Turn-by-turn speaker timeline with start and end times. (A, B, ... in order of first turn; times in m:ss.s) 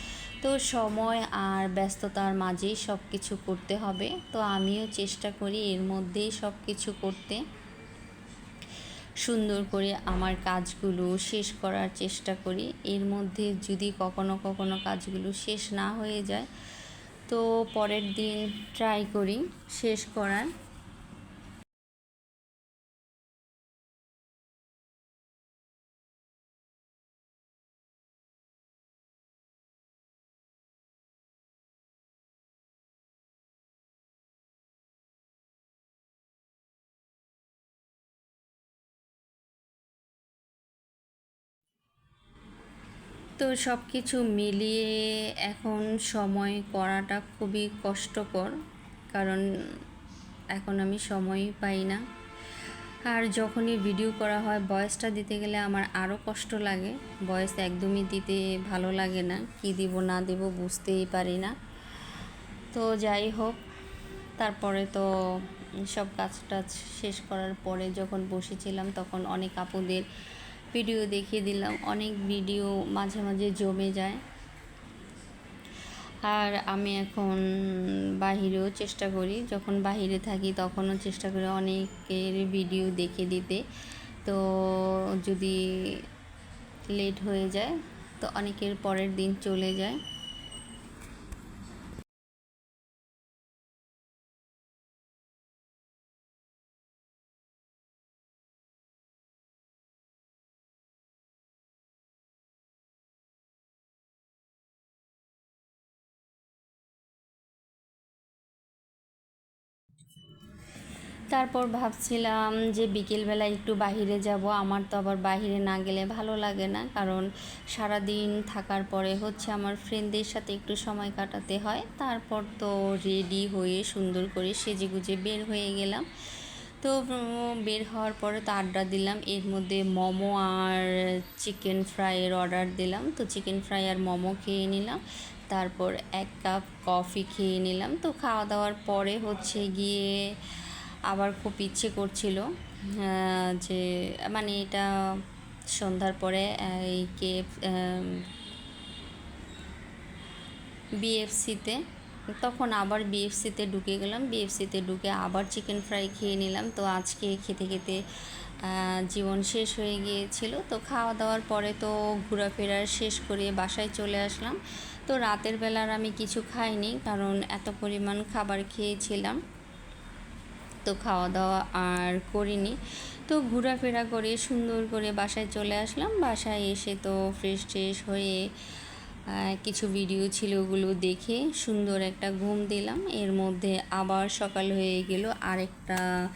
0:00.4-0:07.4 A
0:09.2-0:16.5 A
0:17.3-0:20.5 A
0:43.4-0:48.6 A
0:49.1-0:49.4 A
0:50.5-0:52.0 A
0:53.1-1:01.5 A
1:02.7-1:03.6 A
1:04.4-1:10.0 A
1:10.7-1:14.2 A
1:16.2-1:23.6 A
1:24.2-1:26.0 A
1:26.9-1:30.0 A
1:51.3-2:25.2 A
2:25.7-2:28.2 A
2:31.0-2:31.8 A
2:32.4-2:38.0 A
2:38.6-2:49.4 A
2:50.8-2:58.4 A
2:59.3-3:06.0 A